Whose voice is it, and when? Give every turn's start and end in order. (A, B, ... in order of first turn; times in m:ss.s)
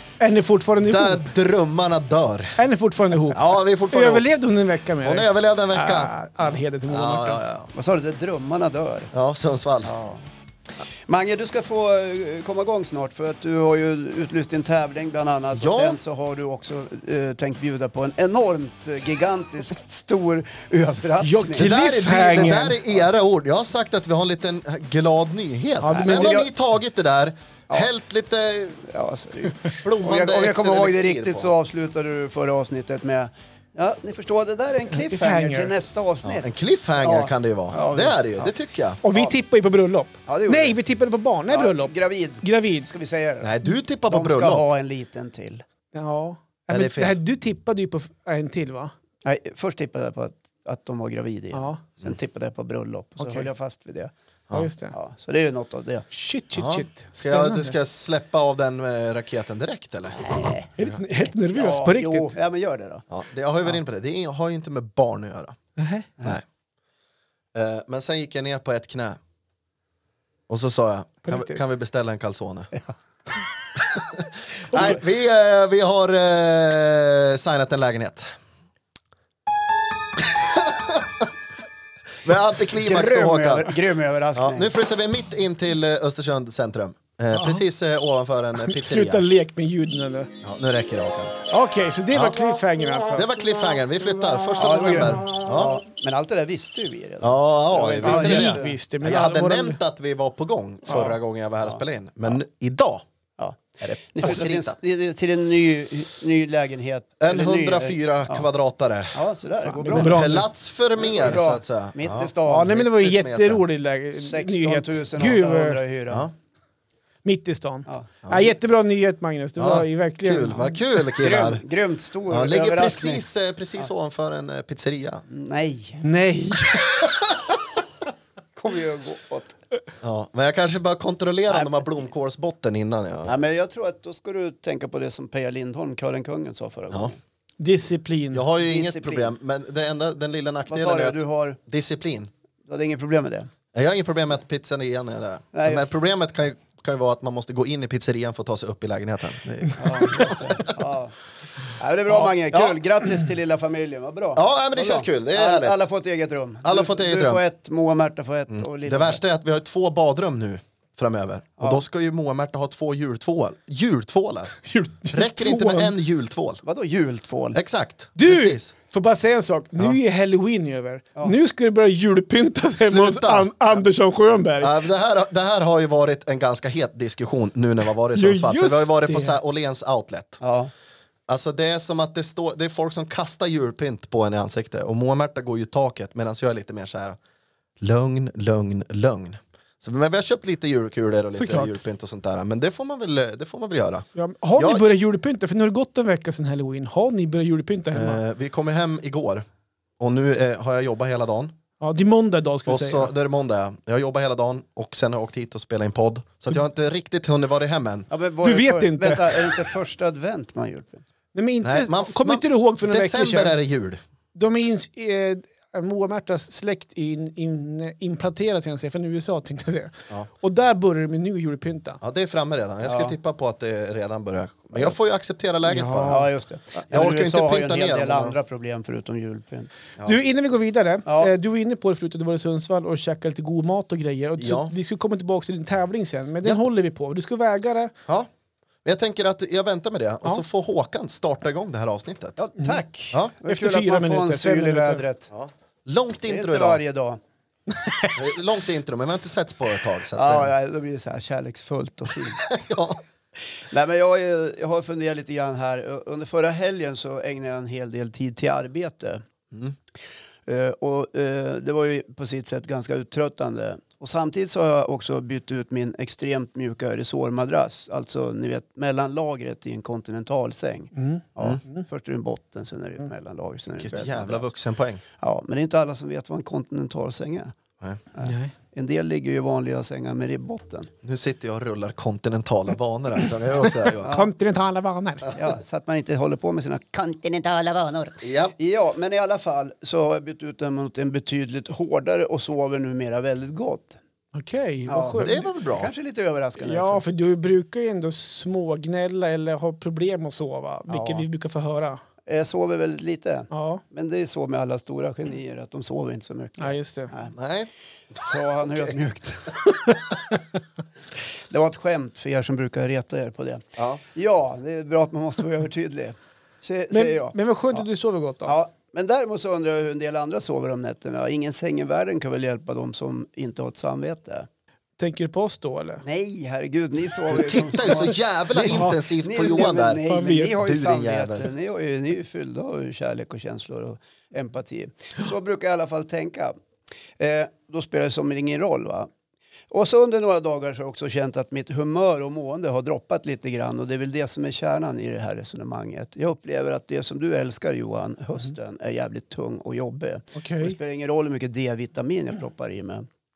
0:00.2-0:01.2 A
0:00.8-0:02.6 B
0:02.6-0:07.4 A
0:03.3-0:04.2 B
0:05.0-0:06.1 B
0:06.9-0:07.7 B
0:07.7-0:09.1 C
0:09.1-0:09.9 B
0:09.8-0:10.2 C
0:11.0-0:21.7 C
0:15.5-0:16.0 B
0:21.2-0:22.8 A
0:21.6-0:28.8 B
0:25.8-0:26.4 A
0:25.9-0:26.5 C
0:28.8-0:36.5 C
0:29.8-0:31.5 B
0:34.9-0:35.7 A
0:36.2-0:39.0 B
0:37.0-0:38.2 C
0:37.7-0:38.1 A
0:39.0-0:42.9 A
0:40.3-0:40.8 C
0:41.5-0:43.5 C
0:43.4-0:44.6 B
0:44.1-0:45.6 C
0:45.9-0:48.9 A
0:46.7-0:47.2 B
0:49.2-0:54.1 C
0:51.5-0:51.8 A
0:53.2-0:53.5 A
0:54.5-0:54.9 A
0:54.9-0:56.0 C
0:56.1-0:57.7 A
0:56.5-1:01.0 B
1:00.1-1:00.7 C
1:00.8-1:02.3 A
1:01.3-1:03.0 C
1:03.1-1:05.6 B
1:05.8-1:06.1 A
1:07.5-1:09.2 B
1:10.5-1:12.7 B
1:11.2-1:11.6 A
1:14.0-1:18.3 B
1:20.3-1:21.3 B
1:22.2-1:23.7 B
1:22.7-1:24.7 C
1:24.3-1:29.2 B
1:27.3-1:27.6 A
1:28.6-1:30.3 A
1:30.4-1:31.4 B
1:31.5-1:33.3 A
1:32.1-1:32.4 B
1:33.1-1:35.8 B
1:34.6-1:38.8 C
1:37.2-1:43.0 B
1:38.0-1:39.8 A
1:40.9-1:41.8 C
1:43.4-1:48.5 C
1:43.8-1:44.8 B
1:47.2-1:49.2 B
1:49.1-1:50.2 C
1:49.8-1:50.5 A
1:49.9-1:53.6 B
1:51.0-1:52.7 C
1:52.4-1:55.8 A
1:54.1-1:56.3 C
1:57.2-2:00.8 A
1:59.6-2:01.6 B
2:01.2-2:03.2 C
2:02.3-2:05.2 B
2:05.3-2:06.0 C
2:06.0-2:07.1 A
2:08.6-2:09.6 C
2:10.0-2:13.4 B
2:11.5-2:11.8 C
2:13.2-2:17.2 C
2:17.6-2:18.4 A
2:18.3-2:22.3 B
2:18.6-2:19.3 C
2:20.7-2:21.6 C
2:22.6-2:23.5 C
2:23.7-2:30.7 B
2:25.5-2:25.9 C
2:29.8-2:31.1 C
2:31.8-2:39.2 C
2:32.5-2:32.8 B
2:34.3-2:35.8 B
2:36.6-2:37.4 B
2:38.5-2:46.6 B
2:44.6-2:45.9 A
2:46.6-2:47.6 C
2:47.5-2:48.7 B
2:48.2-2:54.8 A
2:52.8-2:53.8 B
2:54.6-3:00.4 B
2:58.1-2:59.4 A
3:00.4-3:00.7 C
3:01.3-3:07.2 B
3:07.8-3:14.0 B
3:11.3-3:11.7 A
3:14.2-3:18.2 A
3:14.6-3:14.8 B
3:17.9-3:19.4 B
3:20.0-3:21.5 B
3:21.8-3:23.1 A
3:22.7-3:28.1 B
3:28.1-3:31.0 C
3:28.4-3:29.6 A
3:31.3-3:33.5 A
3:31.6-3:34.0 B
3:34.3-3:42.0 A
3:42.0-3:46.2 B
3:42.8-3:43.2 C
3:45.6-3:46.3 A
3:46.1-3:49.7 C
3:46.9-3:48.3 B
3:50.0-3:57.9 A
3:51.0-3:51.3 C
3:54.4-3:54.7 B
3:58.8-4:02.4 B
4:02.4-4:05.3 C
4:03.4-4:05.0 A
4:05.3-4:06.8 B
4:06.2-4:07.2 C
4:07.7-4:08.2 A
4:08.1-4:10.5 B
4:10.1-4:12.4 C
4:12.4-4:13.0 B
4:13.5-4:19.2 C
4:20.5-4:34.5 C
4:31.0-4:31.8 A
4:33.8-4:35.0 B
4:35.2-4:37.5 C
4:38.1-4:40.9 C
4:38.2-4:38.5 A
4:41.0-4:44.1 B
4:44.0-4:45.3 A
4:44.0-4:44.3 C
4:45.3-4:54.0 C
4:48.2-4:48.5 B
4:54.3-4:55.5 A
4:54.9-4:57.0 C
4:55.2-4:55.9 B
4:56.6-5:02.0 A
5:00.9-5:01.2 C
5:02.2-5:07.3 C
5:03.5-5:03.8 A
5:06.6-5:07.1 A
5:07.3-5:08.2 B
5:08.2-5:09.8 C
5:11.5-5:17.8 C
5:16.9-5:18.5 A
5:18.4-5:24.5 C
5:25.0-5:26.0 A
5:26.0-5:36.6 C
5:27.3-5:30.0 B
5:28.7-5:30.6 A
5:30.6-5:31.5 B
5:37.2-5:39.1 C
5:39.7-5:53.1 C
5:50.3-5:50.8 A